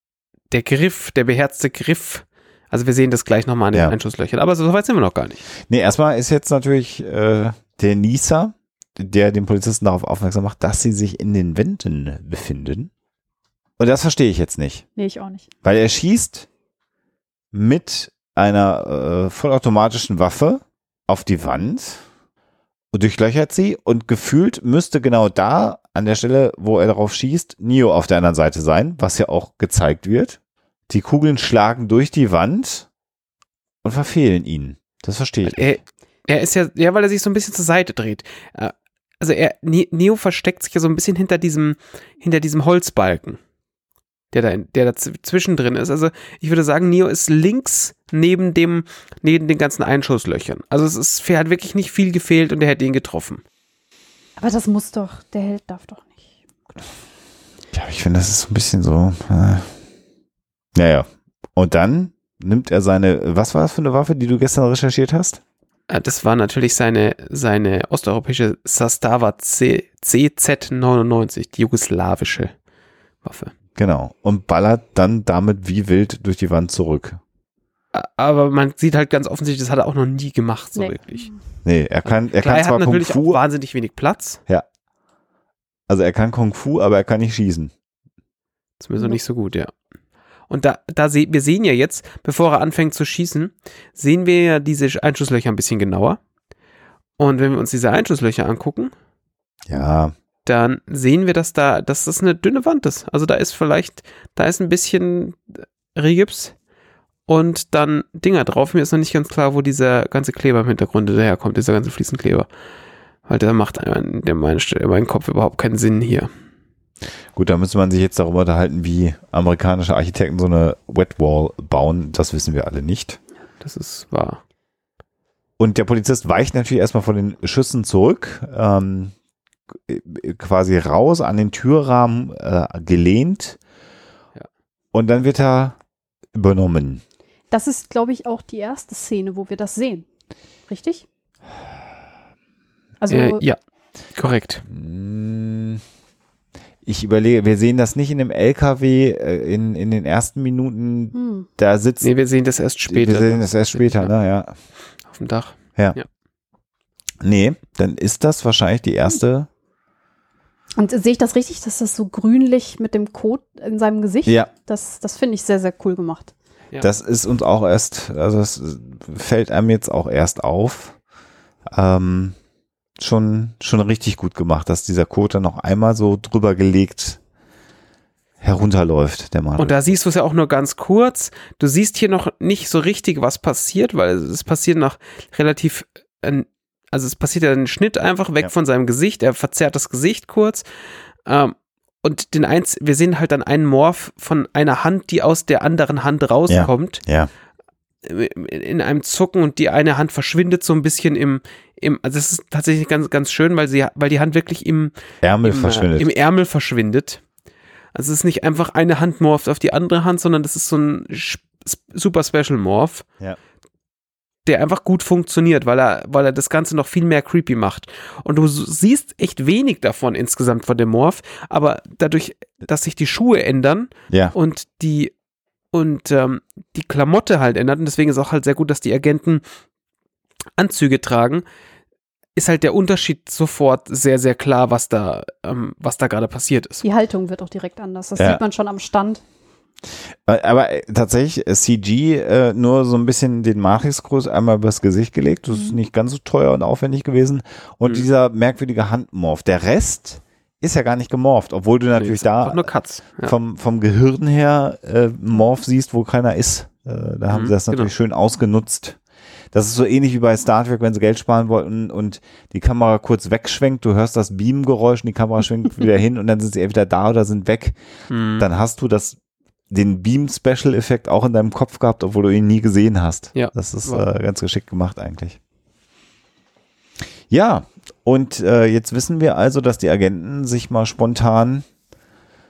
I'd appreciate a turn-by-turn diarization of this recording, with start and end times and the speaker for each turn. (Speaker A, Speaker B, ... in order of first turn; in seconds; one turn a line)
Speaker A: 0.5-5.5
Speaker B: 5.6-12.9
Speaker B: 13.8-14.8
Speaker C: 14.9-15.5
Speaker B: 15.6-16.5
Speaker B: 17.5-22.0
Speaker B: 22.9-30.4
Speaker B: 30.9-32.9
Speaker B: 33.8-35.8
Speaker A: 35.4-43.4
Speaker A: 44.3-53.4
Speaker C: 54.4-56.4
Speaker B: 57.7-59.7
Speaker B: 60.7-65.4
Speaker A: 65.9-72.5
Speaker A: 73.2-73.5
Speaker B: 73.8-77.2
Speaker A: 77.9-81.3
Speaker C: 80.7-81.3
Speaker B: 81.6-83.4
Speaker A: 82.0-84.4
Speaker B: 85.9-87.7
Speaker A: 88.8-89.7
Speaker A: 90.5-96.2
Speaker A: 97.2-98.9
Speaker B: 99.7-100.1
Speaker A: 100.4-106.5
Speaker A: 107.3-112.5
Speaker A: 113.3-116.3
Speaker B: 117.3-123.2
Speaker A: 123.6-124.4
Speaker B: 125.6-129.1
Speaker B: 129.8-133.6
Speaker B: 134.9-135.8
Speaker B: 136.3-137.0
Speaker C: 137.5-140.1
Speaker C: 140.7-141.0
Speaker C: 143.0-143.4
Speaker A: 143.1-143.6
Speaker A: 144.1-144.6
Speaker B: 144.7-145.8
Speaker B: 146.8-152.1
Speaker C: 151.1-151.5
Speaker A: 152.0-154.1
Speaker B: 152.9-154.5
Speaker A: 155.1-156.1
Speaker B: 157.2-159.5
Speaker C: 160.8-166.3
Speaker B: 166.8-170.9
Speaker B: 171.7-172.3
Speaker B: 173.0-177.2
Speaker B: 178.4-179.9
Speaker A: 179.6-190.6
Speaker A: 191.2-197.0
Speaker B: 196.5-197.3
Speaker A: 198.0-207.2
Speaker B: 205.2-206.1
Speaker A: 207.9-213.1
Speaker A: 214.4-225.1
Speaker B: 224.1-224.3
Speaker A: 225.7-229.4
Speaker A: 230.6-231.4
Speaker A: 232.3-236.8
Speaker C: 236.8-239.2
Speaker B: 240.2-252.7
Speaker A: 252.0-253.3
Speaker B: 253.2-259.0
Speaker A: 257.3-257.9
Speaker B: 259.5-267.8
Speaker A: 268.1-268.5
Speaker B: 268.4-269.2
Speaker B: 269.7-275.4
Speaker A: 273.3-274.1
Speaker B: 277.3-281.6